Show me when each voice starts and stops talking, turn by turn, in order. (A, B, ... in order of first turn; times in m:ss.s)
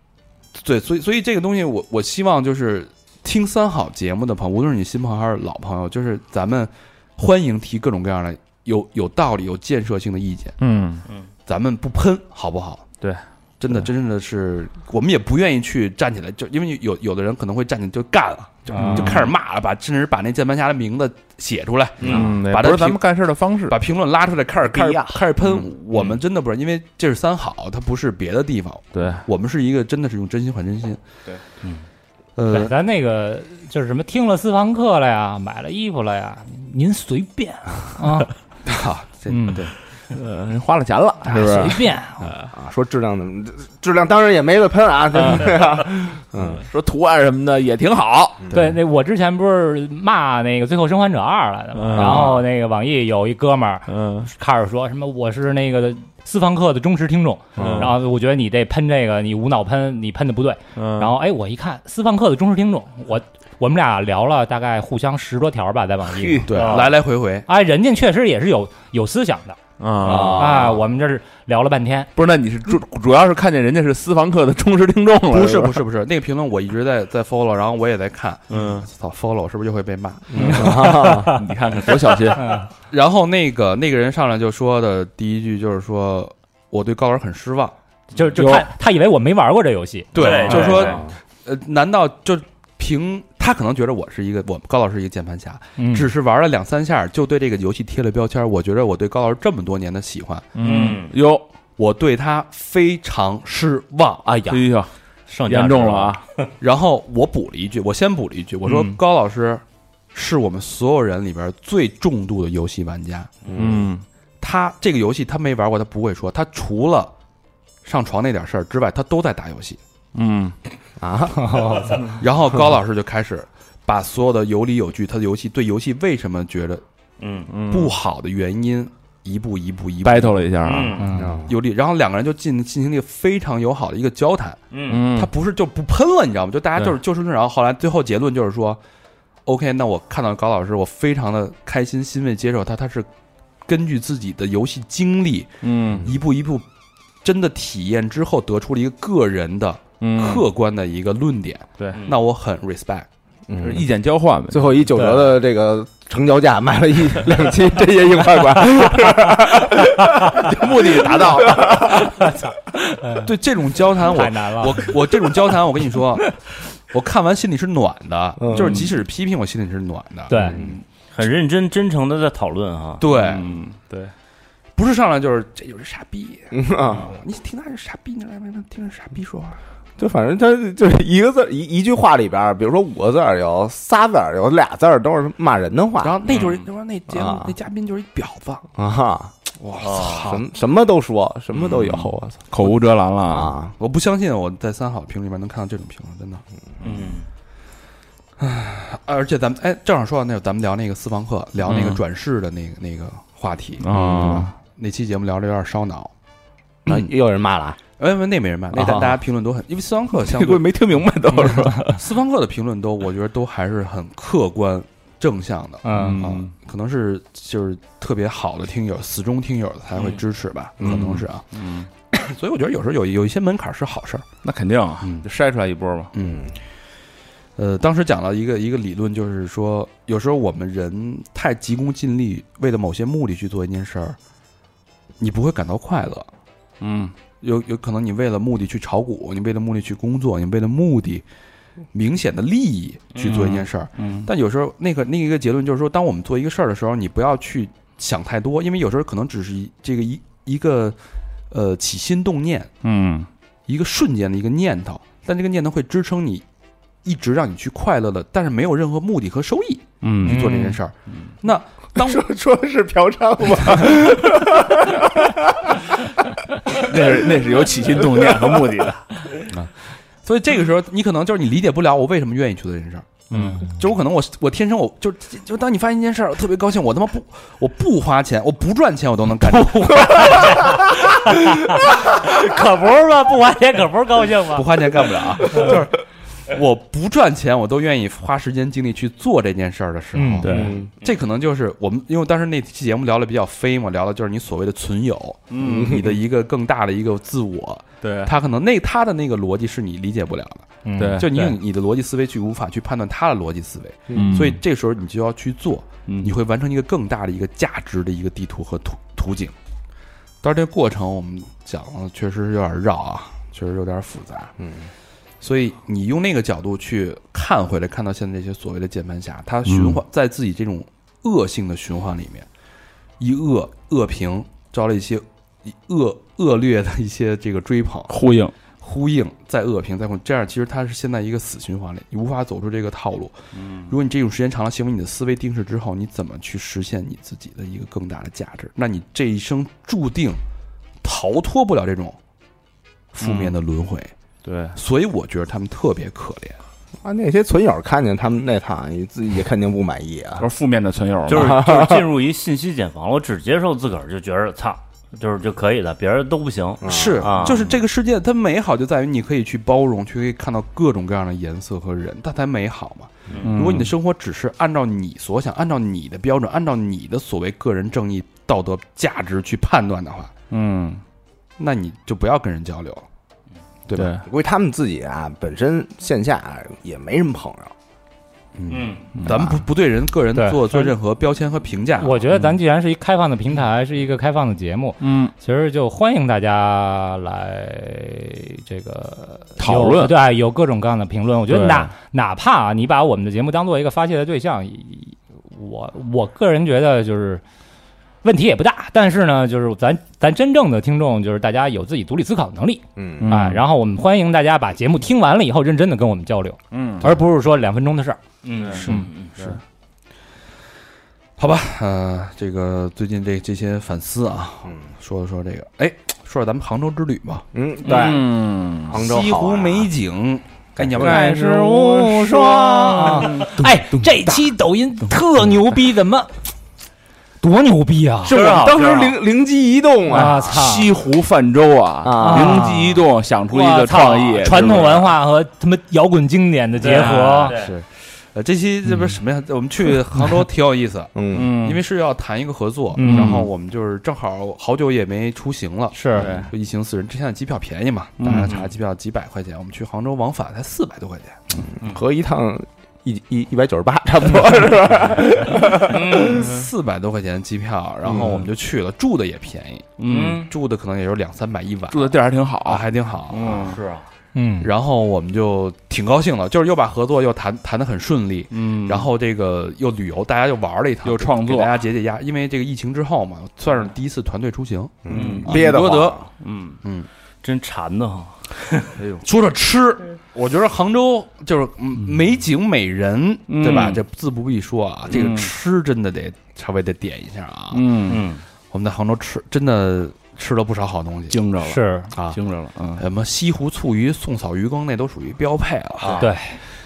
0:00.6-0:10.6 A
0:10.6-0:11.1 B
0:11.5-0:13.0 A
0:13.6-0:23.0 A
0:18.7-0:19.0 C
0:18.8-0:19.3 B
0:22.0-0:22.3 D
0:22.1-0:23.8 B
0:23.7-0:31.0 A
0:28.9-0:29.2 B
0:32.4-0:32.7 A
0:32.5-0:38.3 C
0:38.6-0:39.7 A
0:40.1-0:41.8 B
0:41.2-0:42.3 C
0:42.5-0:46.6 E
0:45.2-0:45.6 B
0:46.6-0:48.5 B
0:48.4-0:48.7 E
0:48.5-1:06.5 C
0:51.7-0:52.4 B
0:51.9-0:52.4 E
0:53.9-0:54.3 B
0:57.6-0:58.0 B
1:00.8-1:01.2 B
1:06.1-1:06.8 B
1:06.5-1:07.5 A
1:06.5-1:06.9 D
1:07.5-1:09.6 C
1:09.8-1:10.8 B
1:10.0-1:10.8 E
1:10.1-1:12.1 C
1:12.2-1:15.8 B
1:15.3-1:20.9 A
1:18.5-1:18.9 B
1:20.3-1:21.4 E
1:20.4-1:21.4 C
1:20.4-1:22.6 B
1:22.3-1:22.7 C
1:22.9-1:27.8 A
1:28.1-1:30.7 C
1:28.4-1:28.7 B
1:30.1-1:40.5 A
1:30.2-1:31.0 D
1:30.7-1:31.1 E
1:35.8-1:36.1 C
1:40.6-1:41.5 B
1:40.6-1:41.1 D
1:41.8-1:44.3 A
1:44.2-1:44.6 E
1:44.4-1:44.9 B
1:45.3-1:46.5 D
1:45.4-1:46.2 B
1:46.6-1:49.6 A
1:48.7-1:48.9 B
1:50.1-1:53.3 A
1:53.5-1:53.9 E
1:53.6-1:54.0 B
1:54.4-1:57.1 A
1:57.8-1:59.8 A
2:00.1-2:00.6 B
2:01.0-2:01.9 E
2:01.4-2:02.0 C
2:02.1-2:06.8 A
2:07.2-2:07.5 D
2:07.5-2:08.0 B
2:07.7-2:10.5 A
2:10.0-2:11.1 B
2:10.6-2:11.1 D
2:11.0-2:11.4 C
2:11.2-2:11.6 E
2:11.5-2:14.6 A
2:14.7-2:15.0 D
2:14.9-2:15.3 B
2:15.1-2:18.8 A
2:19.5-2:23.1 A
2:23.6-2:26.7 A
2:25.6-2:26.1 B
2:27.2-2:33.1 A
2:30.0-2:30.5 B
2:31.8-2:32.0 B
2:33.5-2:33.9 E
2:33.6-2:35.3 B
2:34.5-2:42.1 E
2:40.3-2:42.1 B
2:42.0-2:43.3 C
2:43.2-2:46.4 A
2:44.0-2:45.0 C
2:46.9-2:50.4 A
2:48.4-2:48.9 E
2:48.6-2:48.9 B
2:50.3-2:50.6 C
2:50.4-2:50.8 E
2:51.1-2:53.0 D
2:53.0-2:53.6 A
2:53.1-2:54.1 B
2:54.8-2:59.6 A
2:56.5-2:57.1 E
3:00.0-3:06.3 E
3:06.0-3:08.6 A
3:06.3-3:06.6 D
3:07.1-3:07.5 E
3:08.8-3:09.3 E
3:09.6-3:10.4 A
3:09.8-3:10.3 D
3:10.3-3:12.4 E
3:11.7-3:13.5 B
3:13.3-3:13.7 E
3:13.8-3:16.4 A
3:16.8-3:17.3 D
3:18.4-3:26.1 A
3:21.6-3:22.0 B
3:23.8-3:24.6 B
3:24.0-3:24.5 E
3:26.9-3:27.8 E
3:28.0-3:30.7 A
3:30.2-3:32.0 B
3:32.0-3:44.3 A
3:35.8-3:36.2 C
3:35.9-3:36.5 B
3:40.8-3:41.2 E
3:40.8-3:41.9 B
3:44.4-3:46.1 B
3:45.0-3:45.3 A
3:46.1-3:46.5 A
3:46.2-3:46.5 E
3:47.6-3:54.2 A
3:55.2-3:56.3 A
3:56.8-3:57.1 B
3:57.4-4:01.2 A
4:01.9-4:11.0 A
4:03.2-4:03.5 D
4:03.2-4:04.3 B
4:11.5-4:12.8 A
4:12.8-4:13.3 B
4:13.7-4:16.4 A
4:17.0-4:22.2 A
4:20.0-4:20.7 B
4:20.2-4:20.8 C
4:22.0-4:26.1 E
4:26.7-4:29.4 B
4:28.0-4:28.5 E
4:29.5-4:29.7 A
4:30.2-4:41.0 A
4:33.3-4:33.6 B
4:40.1-4:44.7 C
4:44.5-5:09.5 A
4:50.2-4:50.5 C
4:50.4-4:50.8 B
4:50.5-4:50.9 E
4:55.5-4:56.0 B
4:55.6-4:56.2 E
4:58.0-4:58.3 B
5:00.8-5:01.2 C
5:01.0-5:01.6 B
5:04.1-5:04.5 E
5:04.1-5:04.6 B
5:06.1-5:06.3 B
5:10.4-5:14.5 A
5:14.6-5:14.9 E
5:15.4-5:22.5 A
5:19.7-5:20.0 B
5:23.2-5:28.2 A
5:28.1-5:28.5 B
5:28.8-5:33.4 A
5:33.6-5:33.9 B
5:33.9-5:40.4 A
5:41.0-5:42.2 A
5:43.1-5:44.1 A
5:43.2-5:43.6 B
5:44.4-5:44.8 B
5:44.8-5:46.6 A
5:47.0-5:50.5 E
5:50.4-5:51.6 B
5:51.3-5:57.7 D
5:51.3-5:52.1 E
5:56.8-5:57.6 E
5:56.8-6:10.3 A
6:03.3-6:03.6 D
6:03.4-6:03.9 B
6:10.5-6:11.0 B
6:11.6-6:13.0 A
6:13.9-6:14.1 A
6:13.9-6:14.2 B
6:14.2-6:17.7 E
6:18.6-6:22.2 A
6:18.7-6:19.0 D
6:19.2-6:19.4 B
6:19.2-6:19.6 E
6:20.3-6:20.9 C
6:22.0-6:37.4 C
6:25.0-6:25.3 B
6:29.6-6:30.2 B
6:31.5-6:31.9 B
6:38.2-6:48.2 C
6:43.0-6:43.3 E
6:43.2-6:43.6 B
6:46.7-6:47.2 B
6:48.4-6:49.3 D
6:48.6-6:49.6 B
6:51.4-6:57.5 A
6:57.5-6:59.9 E
6:57.8-6:59.0 B
6:58.9-7:01.2 A
7:00.8-7:03.5 E
7:01.0-7:03.8 B
7:01.1-7:06.3 C
7:07.4-7:08.4 C
7:08.2-7:10.6 E
7:08.3-7:09.2 D
7:10.1-7:10.9 C
7:10.3-7:15.2 B
7:12.0-7:12.7 E
7:12.2-7:17.5 C
7:16.8-7:17.7 D
7:16.9-7:17.4 B
7:17.5-7:31.4 A
7:21.2-7:21.6 E
7:21.3-7:21.8 B
7:23.0-7:23.4 C
7:23.0-7:23.5 B
7:25.9-7:26.3 C
7:26.2-7:26.5 B
7:28.2-7:28.7 B
7:31.7-7:36.3 E
7:35.9-7:36.4 D
7:36.1-7:43.8 A
7:36.4-7:36.6 B
7:38.0-7:38.4 E
7:40.0-7:40.5 B
7:40.1-7:40.5 D
7:41.9-7:43.8 B
7:43.5-7:44.1 D
7:44.3-7:44.7 C
7:44.6-7:55.7 A
7:48.5-7:49.1 B
7:51.0-7:51.8 B
7:55.0-7:56.2 E
7:55.1-7:55.7 D
7:55.1-7:56.2 B
7:56.4-7:56.8 D
7:57.4-7:58.9 D
7:59.0-7:59.2 B
7:59.2-8:08.0 A
8:03.5-8:04.0 B
8:05.1-8:05.5 B
8:07.7-8:08.2 B
8:08.1-8:08.4 D
8:08.7-8:11.4 A
8:11.3-8:13.0 B
8:11.6-8:12.1 C
8:12.2-8:12.4 A
8:13.0-8:16.3 A
8:16.2-8:16.6 C